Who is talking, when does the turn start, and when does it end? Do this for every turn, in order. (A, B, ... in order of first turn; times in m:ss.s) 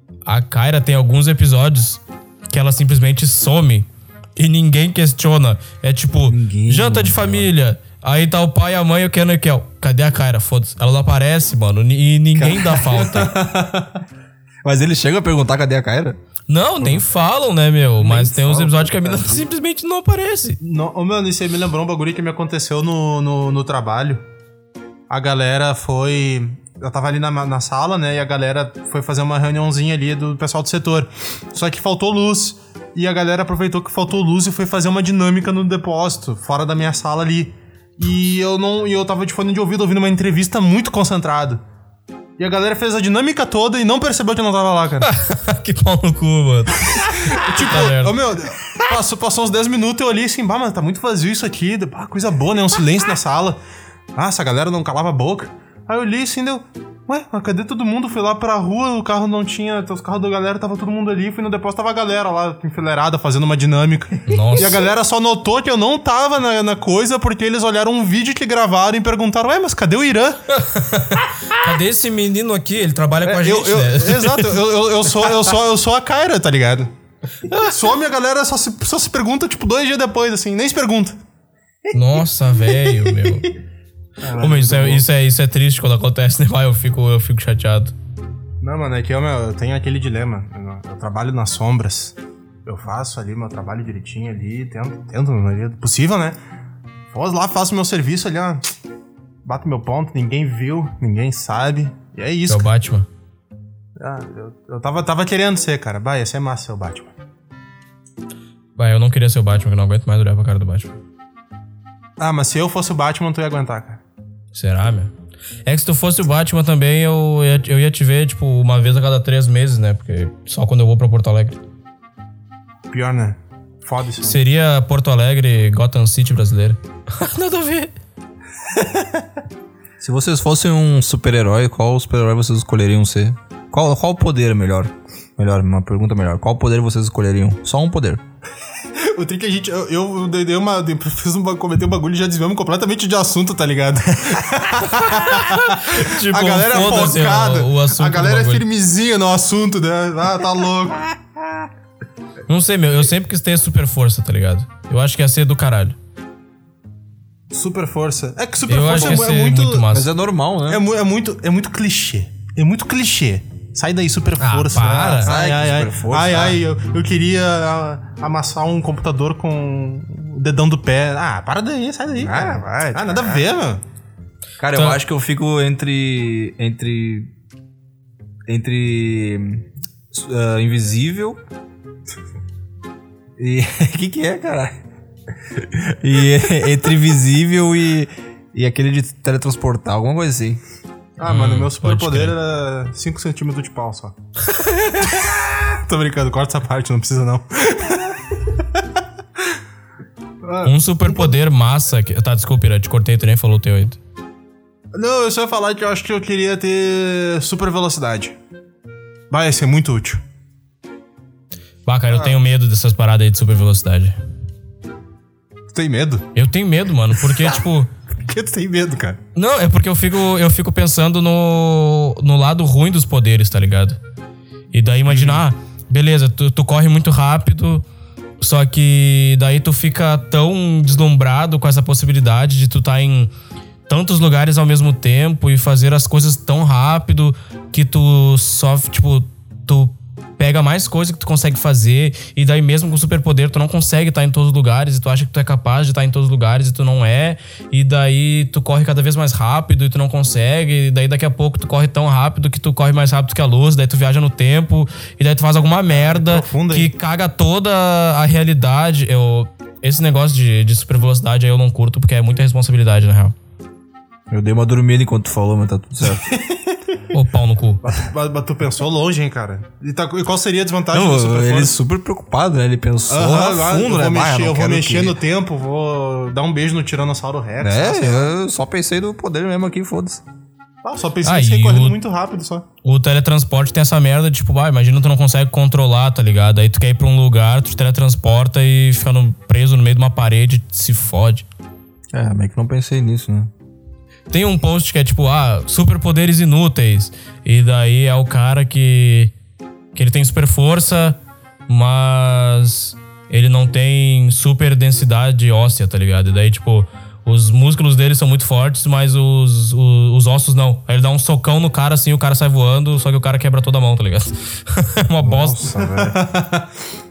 0:00.3-0:13.4 A
0:06.3-0:07.5 B
0:12.3-0:13.2 B
0:13.0-0:14.0 C
0:14.6-0:16.2 B
0:16.5-0:20.6 A
0:18.0-0:19.4 B
0:20.6-0:24.2 C
0:25.1-0:41.6 C
0:42.4-0:45.1 C
0:45.0-0:48.1 A
0:47.0-0:53.6 C
0:54.1-1:10.6 C
1:04.3-1:04.8 A
1:10.6-1:14.6 A
1:13.2-1:16.9 C
1:17.5-1:21.2 C
1:21.9-1:23.5 A
1:24.2-1:25.0 C
1:24.4-1:27.9 A
1:28.6-1:36.4 C
1:37.1-1:38.6 C
1:39.4-1:42.7 C
1:42.5-1:43.1 A
1:44.0-1:47.1 C
1:48.8-1:51.0 A
1:52.2-1:54.0 C
1:54.5-1:55.1 A
1:55.6-2:01.6 A
2:02.9-2:04.4 C
2:04.2-2:07.9 A
2:10.0-2:18.2 B
2:19.0-2:31.1 C
2:25.1-2:28.6 A
2:32.5-2:36.0 A
2:37.5-2:39.9 C
2:38.7-2:40.1 A
2:39.9-2:40.8 B
2:40.7-2:53.8 C
2:44.4-2:45.3 A
2:45.2-2:46.6 B
2:52.2-2:53.4 B
2:54.6-2:57.3 B
2:54.7-2:55.0 A
2:58.5-3:01.4 B
3:03.4-3:04.8 B
3:05.5-3:10.6 B
3:11.2-3:14.1 C
3:11.2-3:12.4 A
3:15.0-3:18.5 C
3:20.4-3:21.4 C
3:20.6-3:24.0 A
3:24.9-3:28.4 C
3:29.3-3:30.2 C
3:31.8-3:34.2 A
3:32.1-3:32.4 C
3:35.7-3:36.2 C
3:36.3-3:37.9 A
3:38.3-3:39.2 C
3:39.4-3:44.0 A
3:44.7-3:47.8 A
3:45.0-3:45.4 C
3:48.4-3:53.3 A
3:53.9-4:23.4 A
4:15.9-4:16.9 C
4:24.3-4:26.2 B
4:26.1-4:27.0 C
4:27.1-4:27.8 A
4:27.8-4:31.8 C
4:30.9-4:35.2 B
4:33.1-4:38.3 C
4:37.6-4:40.2 B
4:40.8-4:42.6 C
4:41.2-4:42.0 A
4:42.8-4:51.5 A
4:52.1-4:53.5 B
4:54.3-4:59.3 A
4:59.9-5:15.7 A
5:15.2-5:16.2 B
5:15.9-5:16.7 C